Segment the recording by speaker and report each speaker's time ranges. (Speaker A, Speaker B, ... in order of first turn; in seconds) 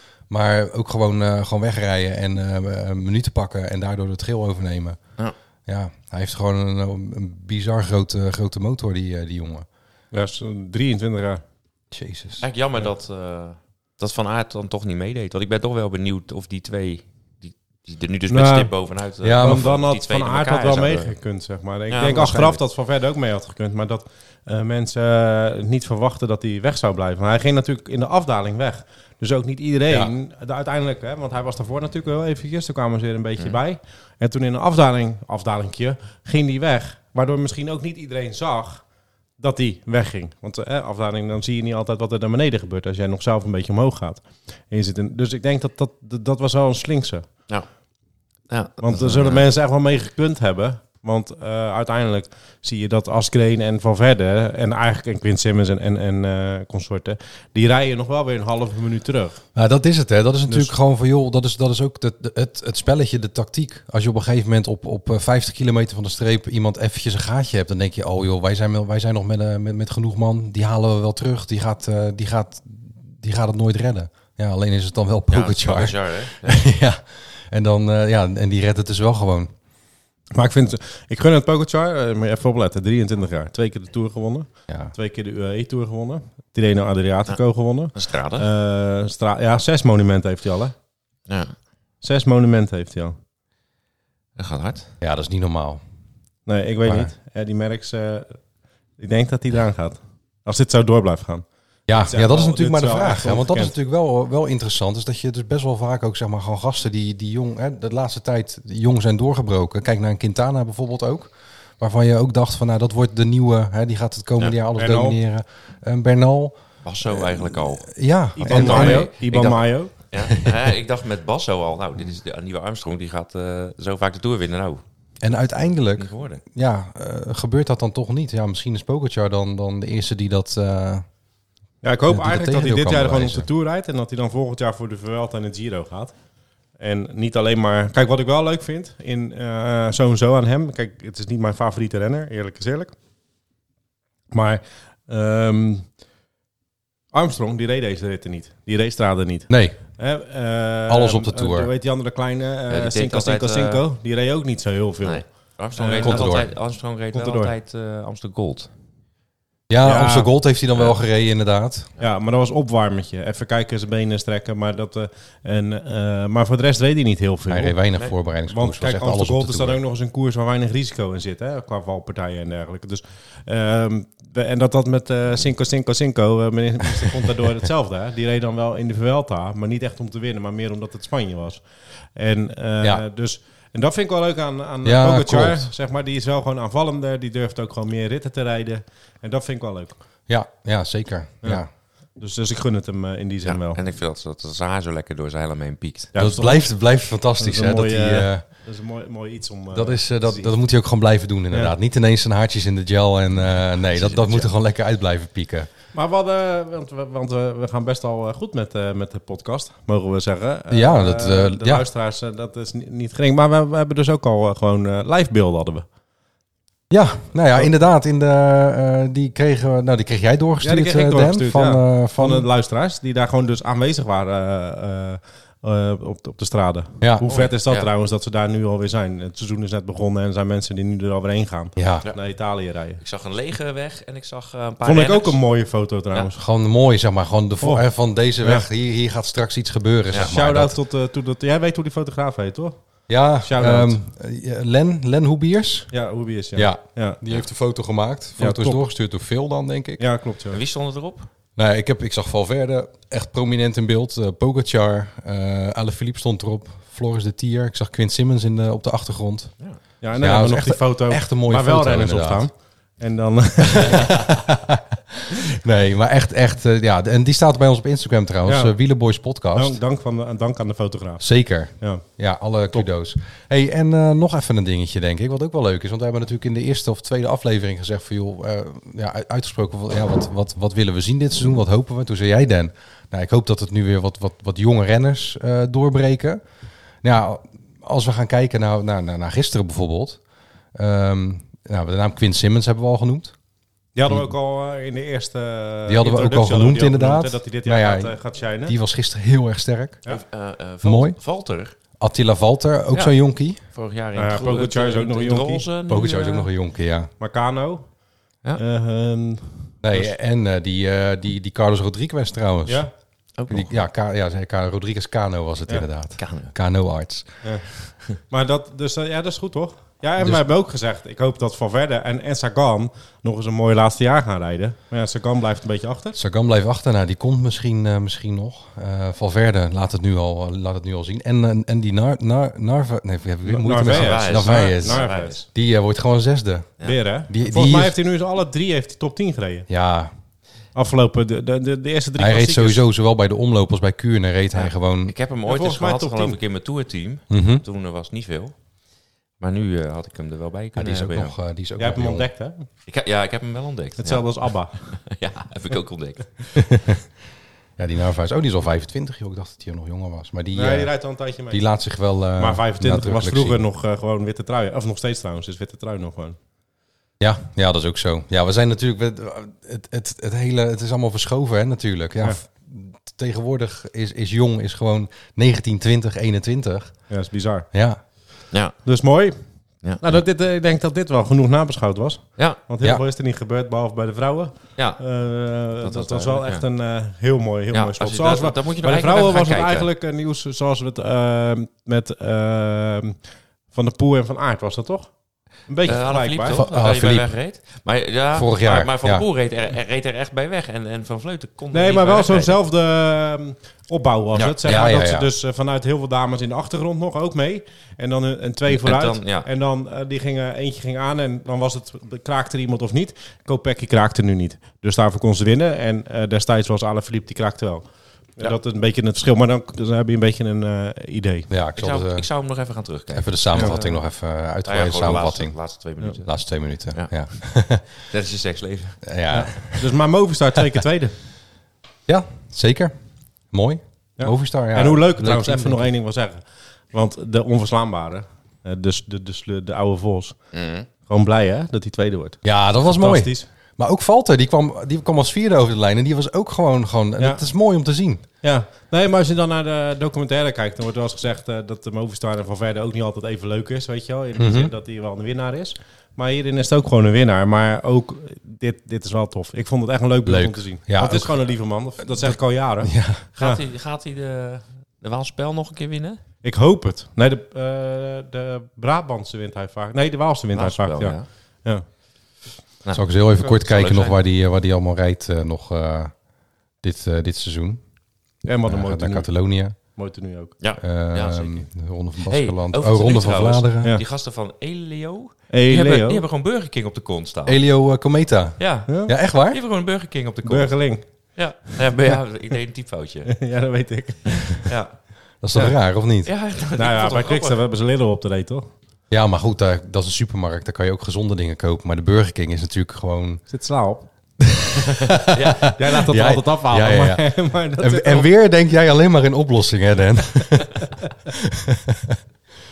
Speaker A: 0.3-5.0, 5.7-9.7, 11.9-12.5, 19.2-19.7, 59.5-79.5, 84.7-84.9, 95.0-95.8, 96.9-97.1, 101.9-116.5, 117.1-119.1, 125.2-131.0, 132.1-133.5, 149.5-149.8, 150.9-151.7, 156.0-156.5, 159.7-161.9, 167.5-169.8, 184.8-185.7, 190.3-191.7, 196.2-198.5, 199.7-205.7, 210.7-211.8, 216.9-222.5, 227.0-227.3, 231.8-232.1, 236.3-240.8, 243.1-245.9, 246.6-250.0, 251.6-259.5, 260.2-262.5, 263.7-269.8, 271.2-286.4, 287.0-290.2, 290.8-293.3, 294.1-294.3, 295.9-300.0, 300.8-301.2, 302.0-303.6, 305.9-307.1, 309.8-312.9, 313.5-317.4, 326.1-336.7, 337.3-337.9, 339.7-340.1, 342.2-345.1, 347.3-347.6, 350.8-352.3, 356.6-357.0, 357.8-360.9, 361.5-363.6, 367.2-376.9, 377.7-378.0, 396.4-397.3, 398.3-399.2, 404.6-405.3, 421.5-422.3, 423.1-425.6, 426.2-427.9, 429.1-430.0, 432.1-432.9, 433.5-435.9, 442.4-448.2, 454.4-454.7, 460.2-461.4, 462.0-462.3, 462.8-463.3, 472.9-476.1, 476.8-477.8, 478.6-479.8, 480.8-484.0, 487.4-489.6, 495.4-496.3, 499.1-503.4, 504.4-512.2
Speaker B: 10.1-11.4, 18.3-18.7, 19.4-38.8, 39.4-47.3, 48.8-59.4, 80.3-90.7, 92.0-93.2, 96.5-98.4, 99.0-101.4, 102.0-103.7, 114.8-115.2, 118.4-120.0, 131.8-136.2, 136.8-142.9, 144.3-145.9, 147.1-155.2, 155.8-156.3, 157.1-157.5, 159.8-160.3, 162.0-167.8, 168.5-181.6, 182.2-190.0, 192.2-193.8, 196.2-196.7, 197.4-200.5, 201.5-201.8, 205.9-215.9, 220.6-233.0, 234.8-236.3, 238.4-238.7, 240.3-242.8, 243.4-244.0, 245.9-247.2, 248.4-248.8, 250.0-250.6, 260.0-264.2, 268.4-268.7, 269.6-271.2, 293.9-298.8, 304.1-305.7, 307.2-307.9, 308.6-310.1, 312.7-312.9, 317.4-317.7, 318.3-326.2, 333.5-335.4, 336.8-339.7, 340.8-342.9, 345.4-346.4, 351.8-352.7, 354.0-354.8, 360.5-361.6, 362.4-366.4, 377.1-377.7, 378.8-379.3, 380.0-393.2, 393.7-395.1, 395.7-396.6, 401.7-417.9, 418.4-421.5, 429.3-431.1, 434.2-440.4, 441.0-442.4, 442.9-443.5, 447.2-447.4, 448.4-463.6, 466.4-471.8, 478.4-479.3, 479.9-480.5, 485.5-486.2, 488.9-489.1, 490.4-491.0, 493.3-494.6, 496.8-498.7, 503.5-504.1, 505.7-508.3
Speaker C: 12.4-21.1, 21.9-22.6, 48.5-49.5, 75.3-76.7, 87.9-88.5, 91.3-91.5, 94.4-94.9, 116.8-124.8, 126.0-126.4, 152.7-153.8, 155.0-158.7, 193.4-196.2, 203.6-204.5, 227.2-227.9, 233.0-235.4, 250.5-251.3, 300.1-301.8, 303.7-306.5, 313.4-313.8, 316.2-316.5, 333.8-335.4, 344.5-348.5, 349.4-351.3, 352.9-356.4, 378.5-378.9, 382.4-382.6, 384.8-385.0, 385.7-386.7, 387.7-389.9, 395.8-402.6, 404.3-404.9, 408.7-409.5, 421.8-424.0, 424.6-426.3, 428.0-429.1, 440.5-440.9, 463.3-466.2, 470.5-471.3, 472.8-474.2, 480.6-481.7, 482.2-487.6, 488.6-490.8, 491.3-493.3, 494.3-494.9, 495.6-497.7, 505.2-505.7